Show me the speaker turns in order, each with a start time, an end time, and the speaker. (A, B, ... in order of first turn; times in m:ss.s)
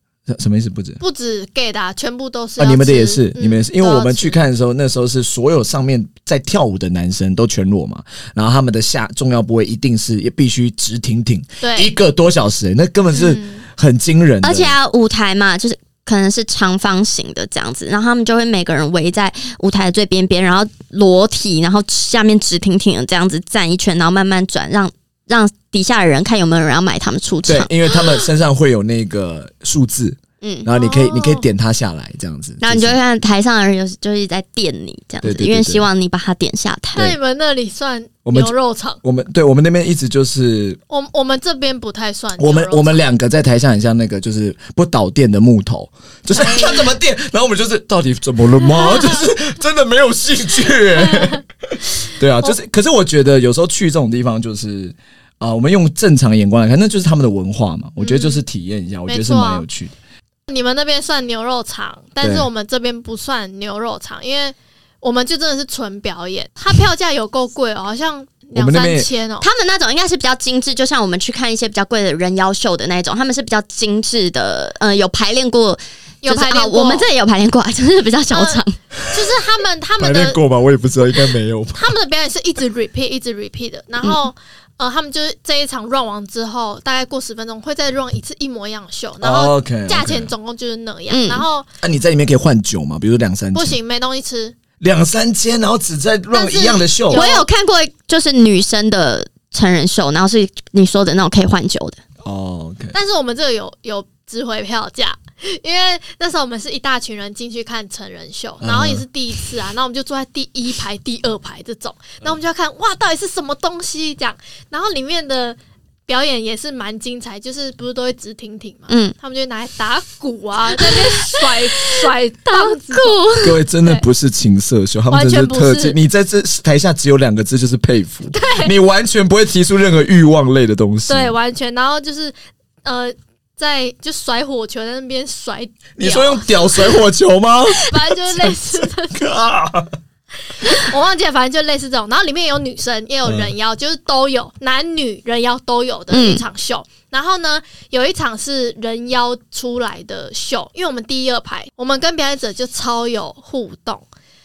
0:00.3-0:01.0 A
0:01.0-0:04.4 B
0:02.6-0:14.7 A
0:11.6-0:11.9 B
0:13.1-0:13.6 B
0:14.4-0:27.7 C
0:27.4-0:33.0 A
0:30.4-0:30.7 C
0:30.7-0:31.4 B
0:32.6-0:37.2 C
0:35.2-0:35.8 A
0:36.9-0:39.0 B
0:38.2-0:40.8 A
0:40.9-0:43.1 B
0:42.4-0:59.9 A
0:46.3-0:46.9 B
0:51.0-0:51.4 B
0:58.0-0:58.4 B
0:59.1-0:59.6 B
1:00.5-1:09.5 B
1:02.2-1:02.5 A
1:08.6-1:09.1 A
1:09.4-1:18.8 C
1:16.2-1:17.1 B
1:18.3-1:20.4 B
1:20.0-1:21.9 A
1:21.8-1:31.7 B
1:29.2-1:30.3 A
1:31.1-1:31.4 C
1:31.8-1:33.8 A
1:33.5-1:34.6 B
1:34.8-1:37.2 A
1:36.3-1:37.4 B
1:37.1-1:42.0 C
1:42.2-1:42.9 A
1:42.9-2:03.2 B
1:48.6-1:49.0 A
1:58.9-1:59.1 C
2:00.8-2:03.6 C
2:03.4-2:11.3 A
2:05.1-2:06.0 B
2:08.3-2:08.7 B
2:11.1-2:17.0 B
2:16.0-2:20.0 A
2:17.9-2:19.2 B
2:20.6-2:34.1 B
2:23.2-2:23.5 A
2:26.1-2:26.4 C